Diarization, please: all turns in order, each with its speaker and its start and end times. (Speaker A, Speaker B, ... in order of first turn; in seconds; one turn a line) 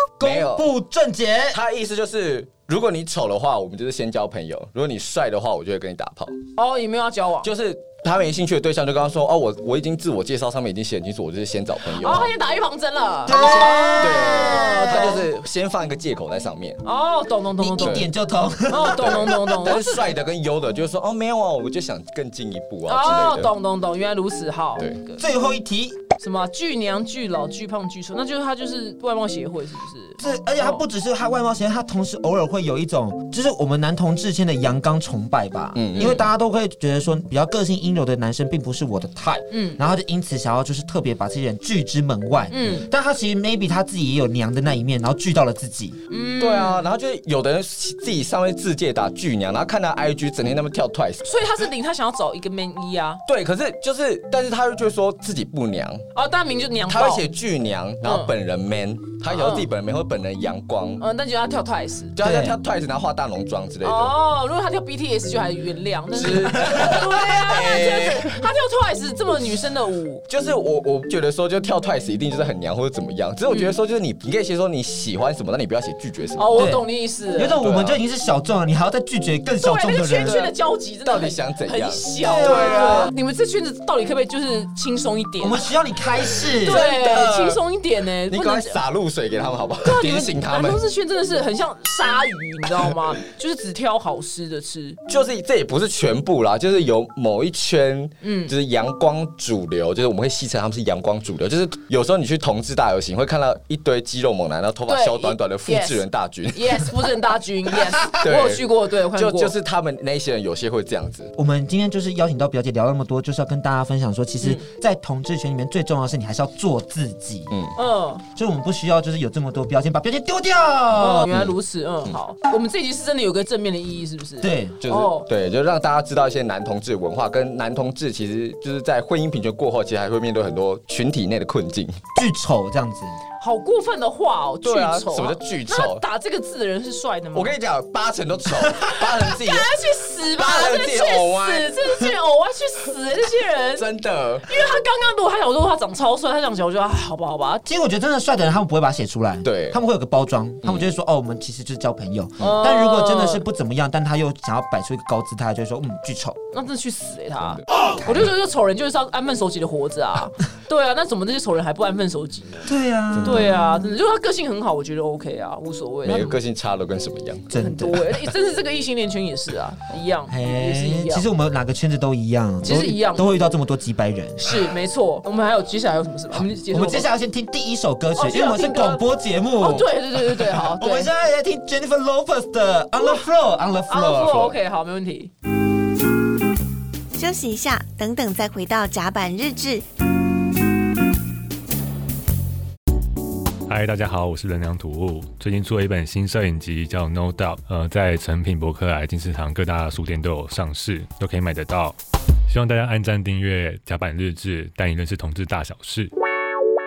Speaker A: 0.2-1.6
Speaker B: 0.2-0.7
Speaker B: 1.5-6.4
Speaker C: 6.5-7.5
Speaker B: 7.4-12.3
Speaker C: 11.9-15.2
Speaker A: 13.2-15.2
Speaker B: 13.3-16.8
Speaker C: 16.8-18.1
Speaker A: 17.6-19.6
Speaker B: 17.8-18.1
Speaker C: 18.7-20.1
Speaker B: 19.0-23.5
Speaker C: 22.9-25.2
Speaker A: 25.2-26.0
Speaker C: 26.2-30.8
Speaker A: 30.2-46.0
Speaker B: 35.8-36.2
Speaker C: 35.9-36.3
Speaker C: 39.5-39.8
Speaker C: 42.5-42.9
Speaker C: 46.1-46.9
Speaker B: 46.4-51.2
Speaker C: 51.2-53.2
Speaker B: 53.2-56.0
Speaker C: 56.1-57.3
Speaker B: 56.9-61.0
Speaker C: 58.0-58.3
Speaker C: 59.3-59.7
Speaker C: 61.0-62.1
Speaker B: 62.1-64.2
Speaker A: 62.2-62.6
Speaker C: 63.8-70.2
Speaker B: 66.1-68.4
Speaker B: 70.3-76.8
Speaker C: 73.5-73.7
Speaker C: 76.4-77.6
Speaker A: 76.5-80.4
Speaker B: 77.6-78.0
Speaker C: 79.6-85.6
Speaker B: 80.2-83.1
Speaker A: 82.2-83.1
Speaker A: 85.4-86.9
Speaker B: 86.5-87.6
Speaker C: 86.6-88.8
Speaker B: 88.3-90.8
Speaker C: 89.8-95.0
Speaker B: 95.1-106.9
Speaker C: 98.2-98.5
Speaker C: 104.9-109.5
Speaker B: 108.0-111.3
Speaker A: 111.3-117.5
Speaker C: 114.4-114.7
Speaker C: 117.8-118.2
Speaker A: 118.3-121.3
Speaker C: 120.9-125.3
Speaker B: 121.3-121.5
Speaker A: 124.4-124.8
Speaker B: 124.8-132.0
Speaker A: 132.1-133.2
Speaker C: 133.4-137.5
Speaker B: 134.6-136.0
Speaker B: 137.3-139.7
Speaker C: 139.2-143.8
Speaker B: 140.4-141.8
Speaker B: 143.8-144.5
Speaker C: 144.4-147.6
Speaker A: 147.6-156.4
Speaker B: 149.4-149.8
Speaker B: 150.6-150.9
Speaker C: 152.4-153.4
Speaker C: 156.5-162.7
Speaker A: 158.0-158.3
Speaker A: 162.7-163.7
Speaker B: 163.1-163.5
Speaker C: 163.2-166.4
Speaker B: 166.0-167.5
Speaker A: 167.5-168.1
Speaker C: 167.5-171.3
Speaker A: 170.3-174.6
Speaker C: 172.6-173.4
Speaker C: 174.4-177.1
Speaker A: 176.3-184.6
Speaker C: 178.2-179.0
Speaker C: 179.6-181.1
Speaker C: 183.0-183.2
Speaker C: 183.9-185.3
Speaker D: 187.1-189.8
Speaker E: 193.7-201.9
Speaker E: 202.5-206.1